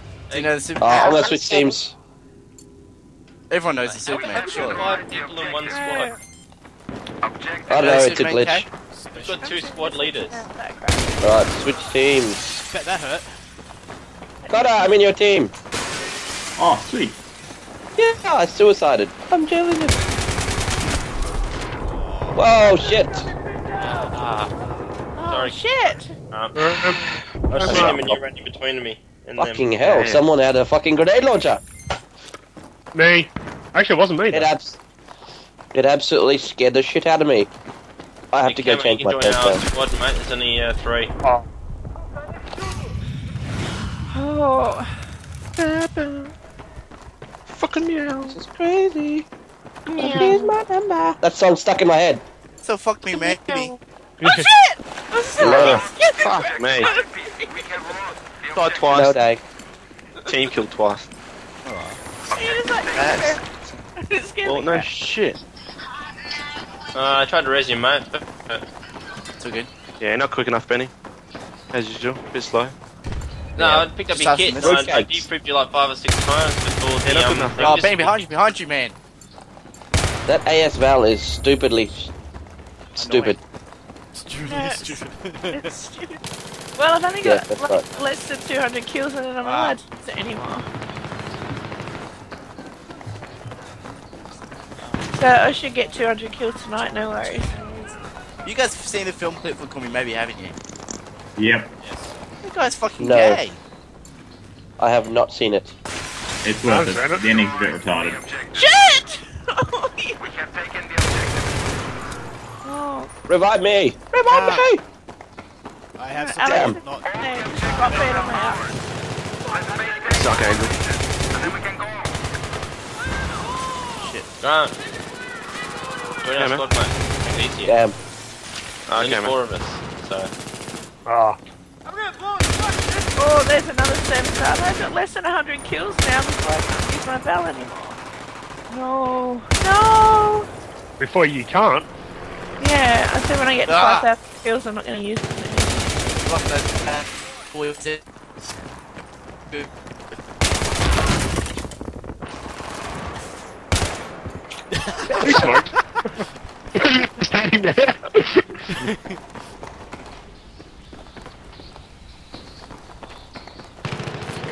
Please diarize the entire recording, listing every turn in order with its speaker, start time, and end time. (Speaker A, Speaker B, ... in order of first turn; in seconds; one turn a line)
Speaker A: 0.3-0.6
Speaker B: 0.3-1.6
Speaker C: 0.8-1.9
Speaker B: 3.5-5.0
Speaker D: 3.9-4.2
Speaker A: 4.0-6.2
Speaker E: 4.3-4.7
Speaker E: 5.7-6.2
Speaker C: 7.7-8.7
Speaker B: 7.7-8.7
Speaker D: 8.9-9.6
Speaker A: 9.2-10.4
Speaker E: 9.4-11.2
Speaker C: 11.2-12.5
Speaker D: 12.7-13.3
Speaker E: 14.4-14.9
Speaker C: 14.5-15.5
Speaker F: 16.6-17.2
Speaker C: 18.0-20.1
Speaker D: 21.9-22.4
Speaker C: 22.4-23.3
Speaker A: 24.1-24.5
Speaker E: 25.2-26.1
Speaker A: 25.3-25.6
Speaker A: 26.2-29.7
Speaker G: 27.6-27.9
Speaker H: 27.6-28.0
Speaker C: 29.4-31.6
Speaker H: 29.8-30.2
Speaker G: 33.0-34.5
Speaker C: 34.3-34.8
Speaker C: 35.7-37.5
Speaker C: 38.3-39.6
Speaker A: 38.4-41.1
Speaker E: 44.1-45.0
Speaker H: 47.5-48.4
Speaker C: 48.3-49.3
Speaker E: 49.9-50.6
Speaker C: 50.0-52.2
Speaker B: 52.6-53.7
Speaker E: 53.1-57.9
Speaker C: 55.4-55.9
Speaker H: 55.4-56.9
Speaker B: 58.5-59.2
Speaker C: 58.9-59.4
Speaker H: 60.3-61.1
Speaker B: 61.6-62.0
Speaker E: 62.3-63.4
Speaker B: 62.9-63.2
Speaker E: 64.0-64.9
Speaker H: 64.5-65.4
Speaker A: 66.9-68.7
Speaker B: 69.4-69.7
Speaker H: 70.0-70.9
Speaker H: 71.7-72.8
Speaker A: 73.6-78.2
Speaker B: 74.0-74.8
Speaker C: 74.6-75.3
Speaker B: 77.1-79.0
Speaker H: 77.1-77.9
Speaker C: 80.3-82.1
Speaker C: 83.0-83.4
Speaker B: 83.0-83.4
Speaker D: 84.2-85.7
Speaker E: 84.5-86.2
Speaker E: 86.8-90.7
Speaker C: 87.2-87.9
Speaker B: 89.4-89.8
Speaker D: 94.8-95.3
Speaker E: 95.2-97.6
Speaker B: 98.4-100.6
Speaker F: 101.4-101.7
Speaker D: 101.8-102.1
Speaker B: 102.4-103.6
Speaker C: 103.0-103.4
Speaker C: 104.8-105.7
Speaker F: 106.4-108.2
Speaker G: 106.7-107.2
Speaker E: 108.5-110.2
Speaker E: 112.6-113.1
Speaker C: 113.3-114.8
Speaker D: 114.3-114.7
Speaker D: 116.0-117.9
Speaker E: 116.2-118.7
Speaker C: 116.5-116.8
Speaker E: 119.5-119.8
Speaker H: 120.1-120.8
Speaker H: 121.3-121.6
Speaker B: 124.0-124.3
Speaker A: 124.4-124.8
Speaker A: 126.2-127.8
Speaker H: 126.4-126.7
Speaker C: 127.6-128.0
Speaker H: 128.9-129.4
Speaker A: 128.9-130.3
Speaker G: 131.1-131.4
Speaker E: 133.2-138.0
Speaker E: 138.7-140.5
Speaker G: 141.0-141.9
Speaker E: 142.6-145.9
Speaker B: 143.7-144.1
Speaker B: 146.2-148.0
Speaker D: 154.7-155.7
Speaker G: 155.2-155.7
Speaker G: 156.8-158.2